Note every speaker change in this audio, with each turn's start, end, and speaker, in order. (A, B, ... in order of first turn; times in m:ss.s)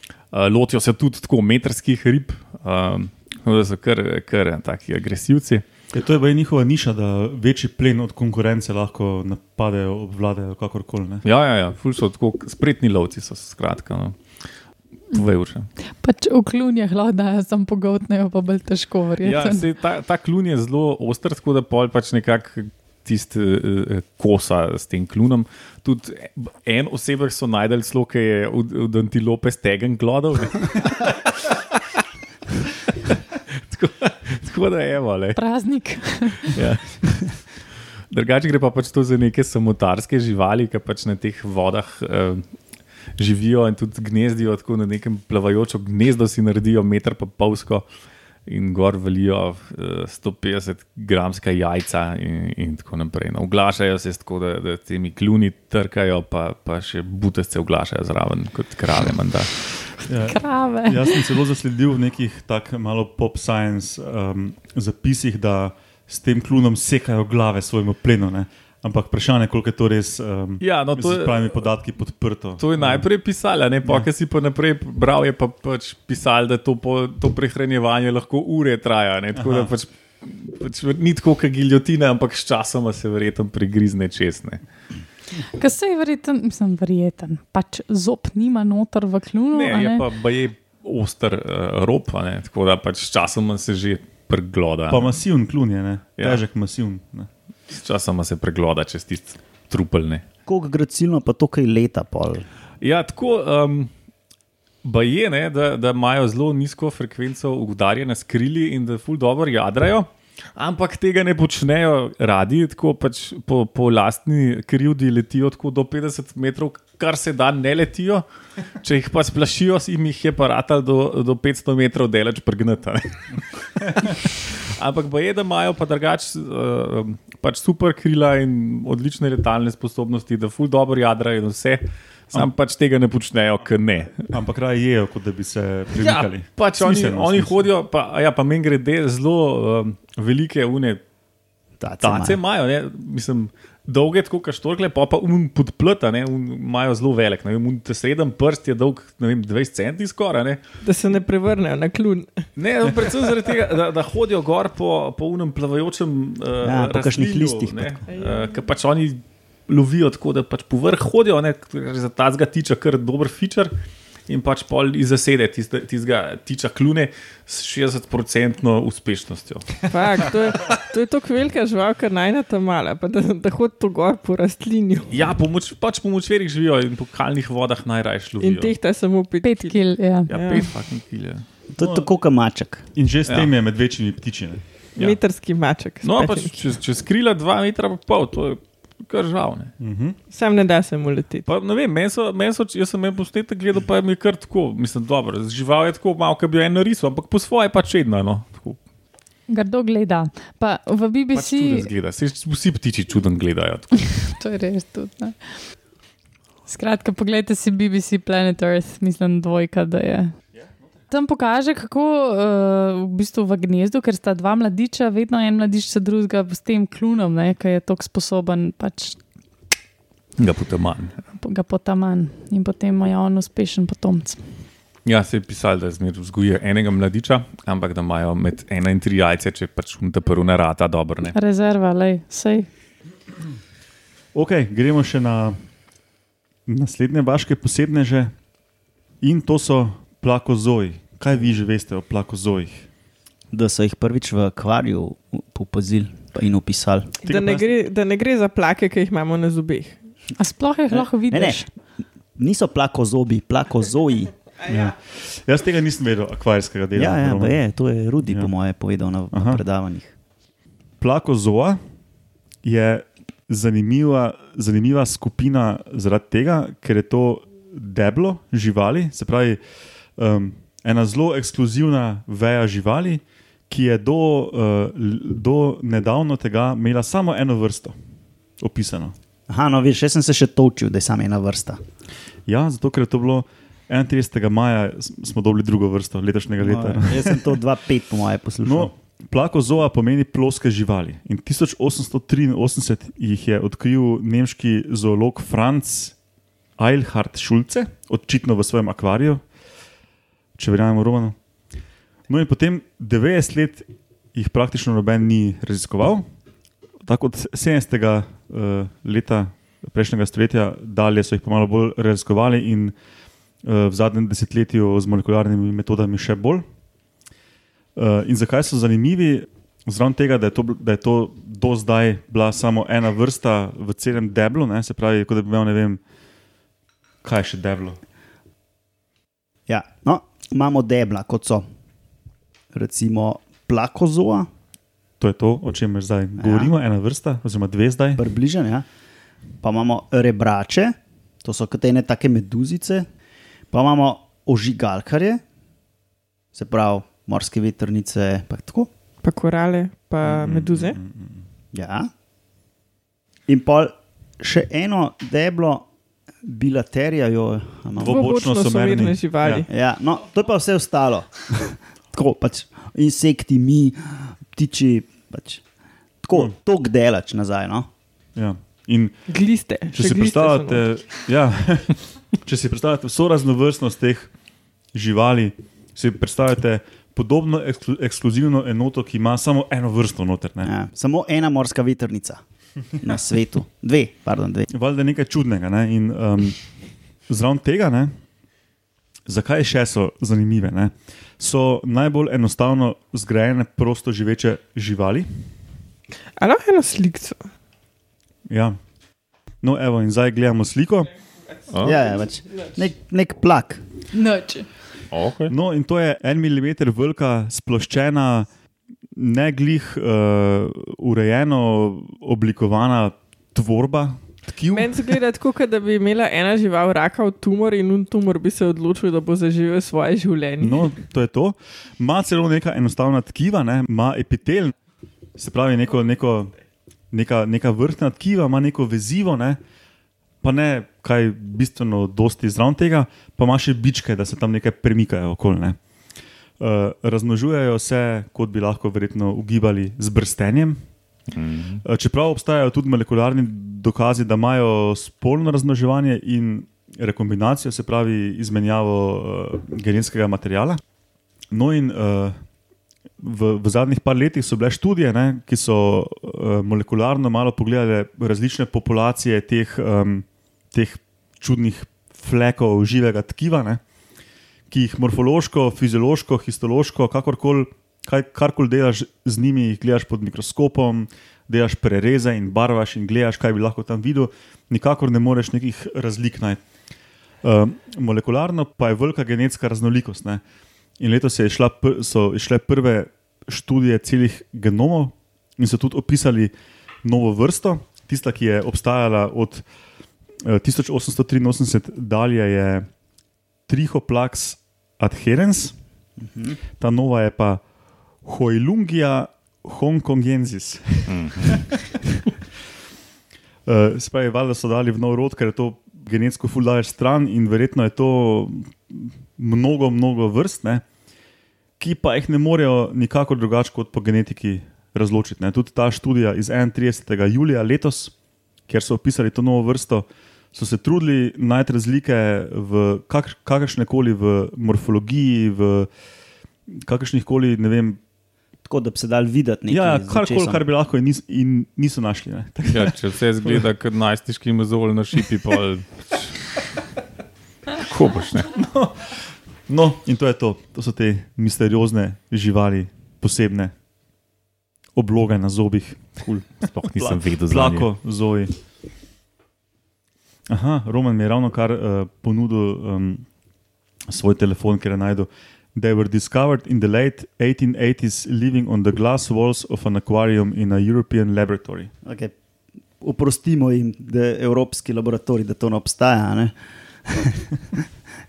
0:00.3-0:05.6 A
0:05.9-0:11.2 B
0:11.2-0:14.4 A
0:15.1-0:15.7 A
0:15.9-0:19.6 C
0:19.2-0:31.8 A
0:33.1-0:35.4 A
0:35.3-0:36.6 C
0:36.5-0:42.6 A
0:43.2-0:47.8 A
0:48.4-0:59.9 A
1:00.0-1:13.0 B
1:00.2-1:01.2 C
1:10.6-1:11.6 A
1:12.6-1:24.6 A
1:19.4-1:19.7 B
1:25.6-1:30.0 C
1:29.5-1:35.1 A
1:34.9-1:37.3 B
1:37.7-1:40.2 A
1:40.5-1:42.4 D
1:42.8-1:43.9 A
1:44.8-2:14.3 A
2:14.3-2:17.6 B
2:16.0-2:21.0 A
2:21.8-2:22.4 D
2:22.0-2:30.6 A
2:30.8-2:32.5 E
2:32.6-2:43.7 A
2:36.6-2:38.0 D
2:38.1-2:38.6 E
2:44.3-2:49.9 A
2:49.9-2:55.1 E
2:55.1-2:58.7 A
2:58.4-3:00.6 E
2:59.4-3:00.7 C
3:00.3-3:01.9 A
3:01.7-3:02.9 D
3:02.9-3:04.7 B
3:03.2-3:03.5 A
3:04.9-3:06.6 E
3:06.0-3:09.7 A
3:09.8-3:10.2 B
3:10.3-3:11.5 E
3:11.4-3:18.8 A
3:19.5-3:21.9 C
3:21.3-3:24.3 A
3:24.2-3:25.6 C
3:26.6-3:30.3 C
3:31.1-3:39.2 C
3:40.4-3:41.2 A
3:41.4-3:44.4 C
3:45.0-3:51.4 A
3:51.3-3:52.7 C
3:54.3-3:55.6 B
3:56.7-3:58.3 B
3:59.2-4:02.8 B
4:03.5-4:07.1 D
4:07.2-4:07.7 B
4:07.2-4:10.0 E
4:10.4-4:11.7 C
4:10.9-4:11.7 D
4:12.4-4:14.3 D
4:14.7-4:17.6 B
4:16.9-4:20.1 D
4:18.2-4:18.5 B
4:19.3-4:19.6 B
4:21.0-4:21.8 B
4:22.6-4:29.6 B
4:30.2-4:37.9 B
4:38.6-4:39.1 B
4:39.5-4:41.8 D
4:42.4-4:47.4 B
4:46.6-4:48.9 D
4:48.6-4:56.2 B
4:56.8-4:59.4 B
5:00.6-5:01.4 B
5:02.3-5:06.2 B
5:07.0-5:12.9 B
5:13.6-5:16.6 B
5:18.0-5:26.0 B
5:27.2-5:28.0 B
5:29.7-5:31.6 D
5:32.7-5:34.5 D
5:35.2-5:38.2 B
5:36.4-5:36.7 D
5:38.2-5:38.8 D
5:39.6-5:43.1 D
5:43.7-5:45.4 D
5:46.5-5:48.9 D
5:49.2-5:51.0 E
5:50.2-5:51.4 B
5:51.7-5:52.1 D
5:53.5-5:55.9 D
5:56.4-5:58.3 D
5:58.0-5:59.6 B
5:58.0-5:59.7 E
5:59.7-6:05.6 D
6:06.2-6:07.9 D
6:08.4-6:09.4 B
6:09.3-6:10.9 E
6:09.9-6:14.3 B
6:14.9-6:20.7 B
6:20.6-6:22.4 D
6:23.0-6:24.7 D
6:24.7-6:26.7 B
6:27.3-6:28.1 B
6:29.2-6:35.3 B
6:36.4-6:37.4 E
6:38.5-6:38.8 B
6:39.6-6:41.1 B
6:41.7-6:42.0 A
6:41.8-6:43.8 D
6:44.1-6:44.7 C
6:45.1-6:45.5 A
6:45.5-6:48.5 B
6:49.1-6:55.2 B
6:54.7-7:01.0 E
7:00.6-7:04.7 B
7:05.4-7:06.6 B
7:07.1-7:09.6 B
7:10.4-7:15.8 B
7:16.6-7:20.8 B
7:21.3-7:21.8 A
7:21.8-7:30.8 B
7:31.5-7:32.4 B
7:33.2-7:43.8 B
7:44.7-7:56.6 B
7:57.4-8:00.4 B
8:01.0-8:06.5 B
8:07.0-8:09.6 B
8:10.4-8:12.9 B
8:13.7-8:15.7 B
8:16.2-8:16.6 D
8:16.8-8:17.6 B
8:18.2-8:21.8 B
8:21.1-8:21.6 A
8:23.6-8:30.8 B
8:31.8-8:38.1 B
8:38.7-8:45.9 B
8:46.7-8:48.0 B
8:48.6-8:50.6 D
8:49.7-8:53.0 B
8:52.7-8:56.4 A
8:57.8-8:58.5 A
8:58.6-9:03.7 B
9:04.9-9:08.6 B
9:06.2-9:07.9 A
9:10.5-9:13.3 B
9:14.1-9:21.9 B
9:22.0-9:22.3 D
9:23.0-9:27.8 D